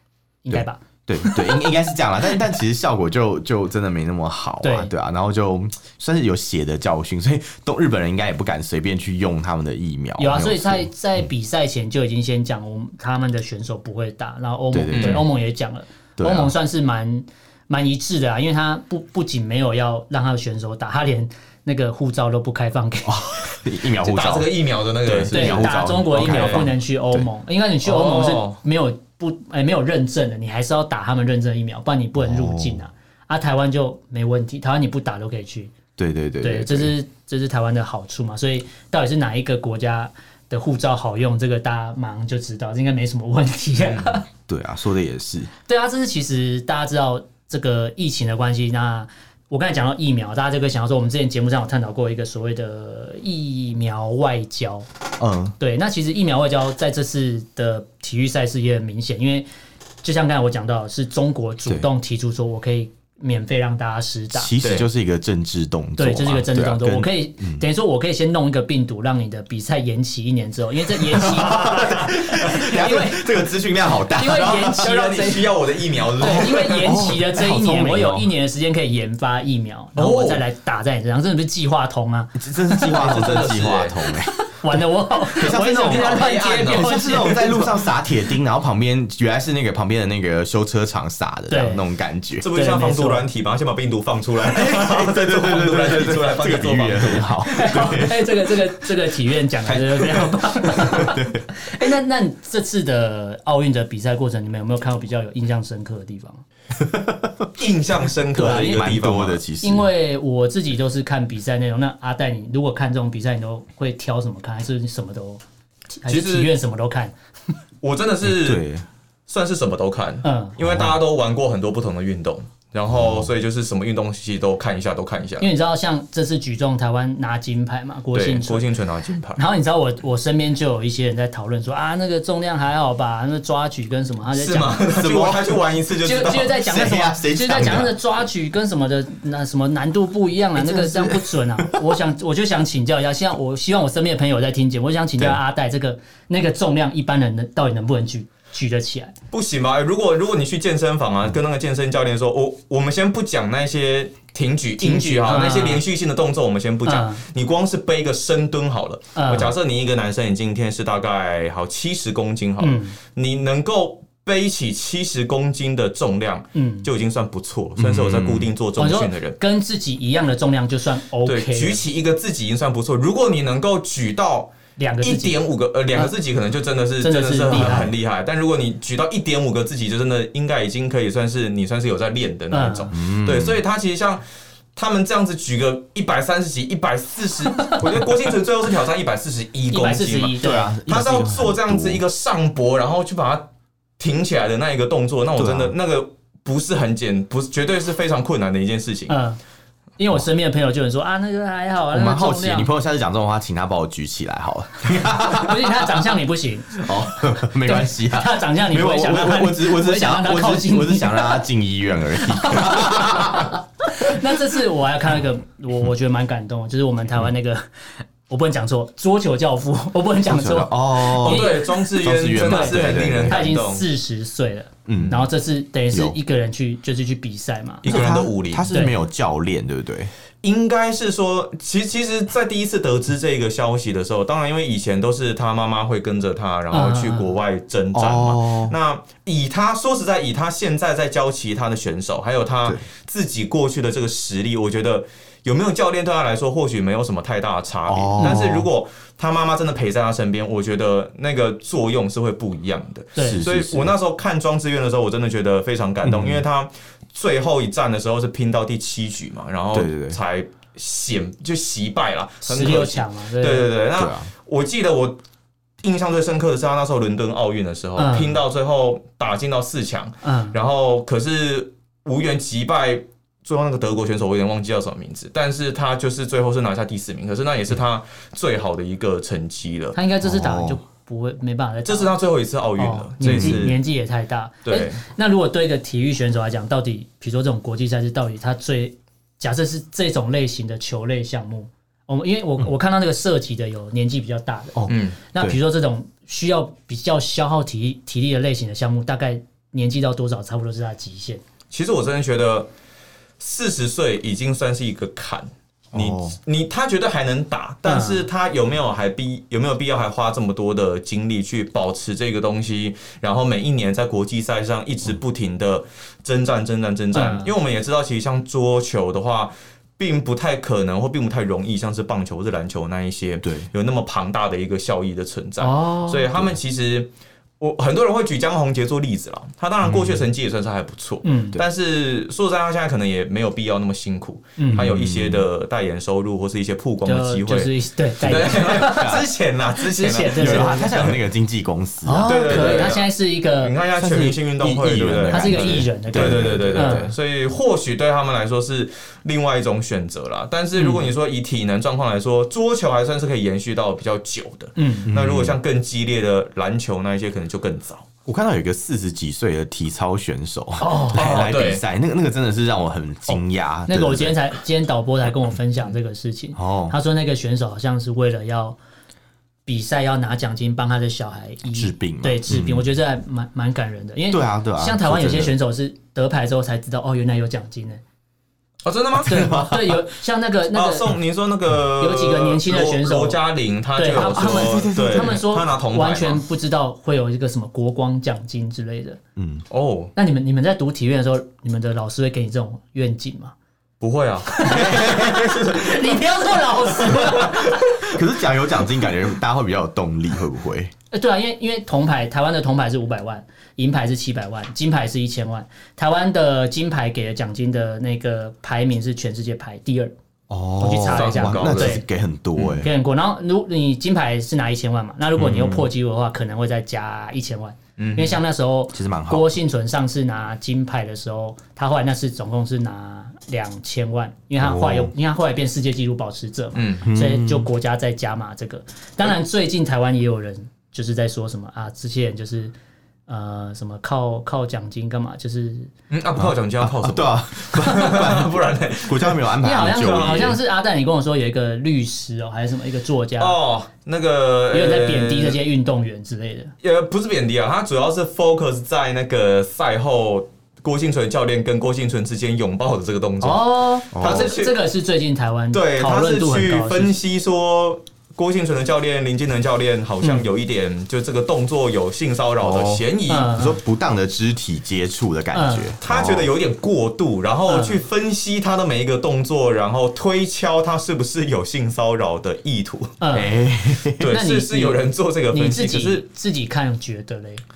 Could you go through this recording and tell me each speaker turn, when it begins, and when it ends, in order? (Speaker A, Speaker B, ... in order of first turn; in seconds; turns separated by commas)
Speaker A: 0.4-1.7, Speaker B: 0.5-10.9, Speaker A: 4.6-4.9, Speaker A: 10.2-23.3, Speaker B: 14.7-15.3, Speaker C: 14.9-15.3, Speaker B: 16.2-16.5, Speaker B: 23.1-24.5, Speaker C: 24.0-26.7, Speaker B: 25.0-27.3, Speaker A: 25.3-35.7, Speaker C: 27.8-28.6, Speaker B: 32.2-32.8, Speaker B: 36.0-36.9, Speaker A: 36.4-44.3, Speaker C: 43.8-44.1, Speaker B: 44.5-45.5, Speaker A: 45.7-54.9, Speaker B: 55.2-55.6, Speaker A: 55.6-59.5, Speaker A: 60.0-64.5, Speaker B: 64.3-67.7, Speaker C: 64.6-64.9, Speaker A: 66.0-73.3, Speaker B: 71.0-74.9, Speaker A: 73.9-75.6, Speaker C: 74.4-77.1, Speaker A: 76.2-83.2, Speaker B: 76.2-78.3, Speaker C: 80.0-80.4, Speaker B: 82.3-84.3, Speaker C: 82.9-84.0, Speaker A: 84.3-87.7, Speaker B: 85.4-92.5, Speaker C: 85.4-87.7, Speaker A: 91.5-91.8, Speaker C: 92.4-97.3, Speaker A: 92.5-93.2, Speaker B: 94.5-98.6, Speaker A: 97.5-106.4, Speaker B: 99.7-101.5, Speaker B: 106.8-107.5, Speaker C: 107.6-109.4, Speaker A: 108.3-109.0, Speaker B: 108.4-109.9, Speaker A: 109.6-115.4, Speaker A: 116.0-117.1, Speaker C: 116.1-116.5, Speaker C: 117.8-118.7, Speaker B: 118.2-118.8, Speaker C: 119.3-125.5, Speaker A: 120.2-120.6, Speaker B: 120.6-121.0, Speaker B: 122.9-123.3, Speaker A: 125.4-128.7, Speaker C: 128.1-129.4, Speaker A: 129.4-134.8, Speaker C: 134.3-136.6, Speaker B: 134.9-135.4, Speaker A: 136.0-149.1, Speaker B: 136.5-137.9, Speaker B: 140.6-141.9, Speaker C: 149.3-169.4, Speaker A: 154.8-155.8, Speaker A: 156.9-157.2, Speaker A: 159.2-159.5, Speaker A: 162.6-163.0, Speaker A: 166.6-166.9, Speaker B: 167.8-168.5, Speaker A: 168.8-171.8, Speaker C: 171.2-184.2, Speaker A: 174.8-175.4, Speaker A: 177.0-177.9, Speaker A: 182.5-182.9, Speaker B: 182.9-183.6, Speaker C: 184.8-193.5, Speaker A: 189.7-190.8, Speaker B: 190.4-192.0, Speaker C: 194.0-199.1, Speaker B: 195.4-195.7, Speaker A: 199.1-199.4, Speaker A: 200.0-202.7, Speaker B: 201.9-206.1, Speaker A: 205.2-211.4, Speaker B: 206.8-214.1, Speaker A: 212.3-217.7, Speaker A: 218.3-229.0, Speaker B: 220.3-223.5, Speaker C: 221.1-223.9, Speaker B: 224.9-225.3, Speaker C: 227.8-228.7, Speaker B: 227.9-230.1, Speaker C: 230.4-265.2, Speaker A: 236.7-237.4, Speaker B: 237.9-238.8, Speaker B: 247.9-248.7, Speaker A: 253.2-253.5, Speaker B: 253.2-253.9, Speaker B: 256.0-256.4, Speaker B: 259.7-260.2, Speaker A: 262.4-263.7, Speaker B: 264.0-264.3, Speaker C: 265.8-280.0, Speaker A: 268.0-268.4, Speaker A: 270.2-270.6, Speaker A: 279.9-282.1, Speaker B: 280.2-280.8, Speaker C: 281.9-283.8, Speaker A: 282.8-301.4, Speaker B: 283.2-283.7, Speaker C: 284.7-285.0, Speaker B: 294.8-295.6, Speaker C: 294.9-295.2, Speaker C: 301.7-302.7, Speaker C: 303.4-341.2, Speaker B: 305.9-306.4, Speaker A: 307.9-308.3, Speaker A: 317.1-317.5, Speaker A: 325.6-326.3, Speaker B: 329.8-330.2, Speaker A: 331.2-331.6, Speaker A: 334.6-334.9, Speaker B: 334.7-335.5, Speaker A: 337.1-341.1, Speaker B: 338.5-339.3, Speaker B: 340.4-342.9, Speaker A: 342.0-343.8, Speaker C: 342.2-358.1, Speaker B: 344.0-347.1, Speaker A: 345.3-347.1, Speaker A: 354.8-355.1, Speaker B: 355.1-355.6, Speaker B: 358.3-364.4, Speaker A: 360.8-361.5, Speaker C: 361.1-361.8, Speaker A: 363.9-368.8, Speaker B: 366.6-367.0, Speaker A: 369.7-378.0, Speaker B: 371.7-372.9, Speaker B: 374.3-375.5, Speaker C: 378.9-379.5, Speaker B: 379.2-380.0, Speaker A: 379.3-381.1, Speaker C: 380.7-386.4, Speaker A: 382.0-383.4, Speaker A: 384.0-389.2, Speaker B: 384.3-385.4, Speaker B: 389.4-389.6, Speaker C: 389.7-390.1, Speaker A: 390.2-393.5, Speaker C: 394.0-396.0, Speaker A: 394.5-398.1, Speaker B: 394.7-395.7, Speaker B: 397.1-400.9, Speaker C: 397.1-397.6, Speaker A: 401.1-410.1, Speaker B: 410.5-412.9, Speaker A: 410.8-412.0, Speaker C: 411.1-412.0, Speaker A: 412.7-432.7, Speaker B: 415.4-415.9, Speaker C: 418.0-418.4, Speaker B: 418.9-419.5, Speaker B: 424.6-425.1, Speaker C: 426.8-427.1, Speaker B: 427.0-427.7, Speaker A: 433.3-435.9, Speaker C: 436.1-440.6, Speaker B: 436.4-440.6, Speaker A: 439.6-443.6, Speaker C: 443.4-445.6, Speaker A: 444.7-446.7, Speaker C: 446.8-454.8, Speaker A: 453.4-457.2, Speaker B: 454.1-454.5, Speaker C: 455.7-463.5, Speaker B: 462.6-466.5, Speaker A: 463.3-463.8, Speaker A: 465.5-465.9, Speaker C: 466.0-473.2, Speaker A: 467.7-468.0, Speaker A: 473.2-473.5, Speaker B: 473.3-474.3, Speaker C: 474.1-476.2, Speaker A: 474.3-477.6